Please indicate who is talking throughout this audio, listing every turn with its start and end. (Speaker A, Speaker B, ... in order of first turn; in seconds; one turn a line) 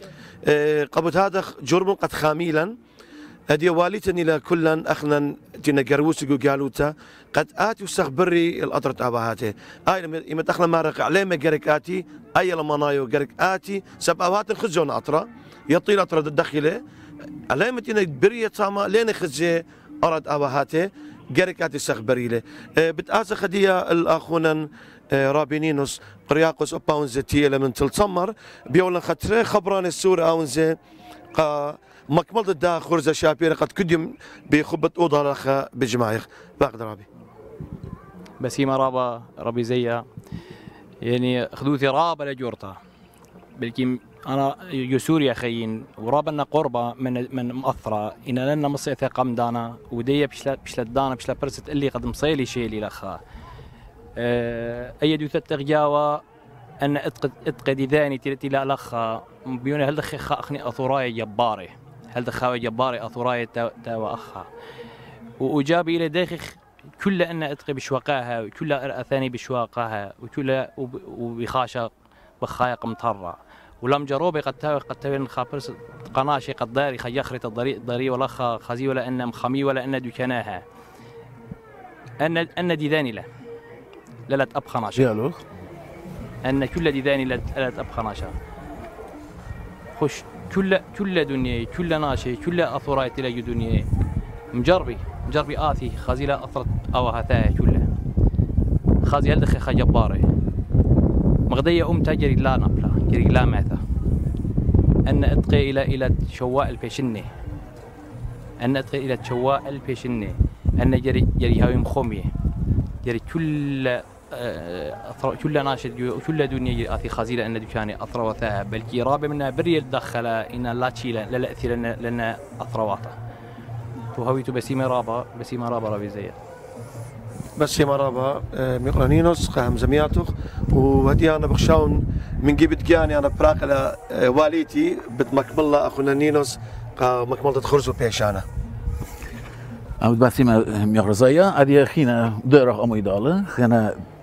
Speaker A: 0.4-2.8
Speaker A: 3.5-16.8
Speaker A: 17.5-30.8
Speaker A: 31.3-37.0
Speaker B: 38.4-40.0
Speaker B: 41.0-42.8
Speaker B: 43.5-53.2
Speaker B: 54.2-56.2
Speaker B: 56.8-64.5
Speaker B: 65.4-80.6
Speaker B: 82.2-83.2
Speaker B: 84.3-85.1
Speaker C: 84.9-85.4
Speaker B: 86.4-88.3
Speaker B: 90.0-93.8
Speaker B: 94.5-97.9
Speaker B: 99.0-100.2
Speaker B: 101.5-103.8
Speaker B: 105.1-107.3
Speaker B: 108.6-112.3
Speaker B: 113.0-123.2
Speaker B: 124.1-126.4
Speaker A: 127.6-138.4
Speaker C: 140.0-144.0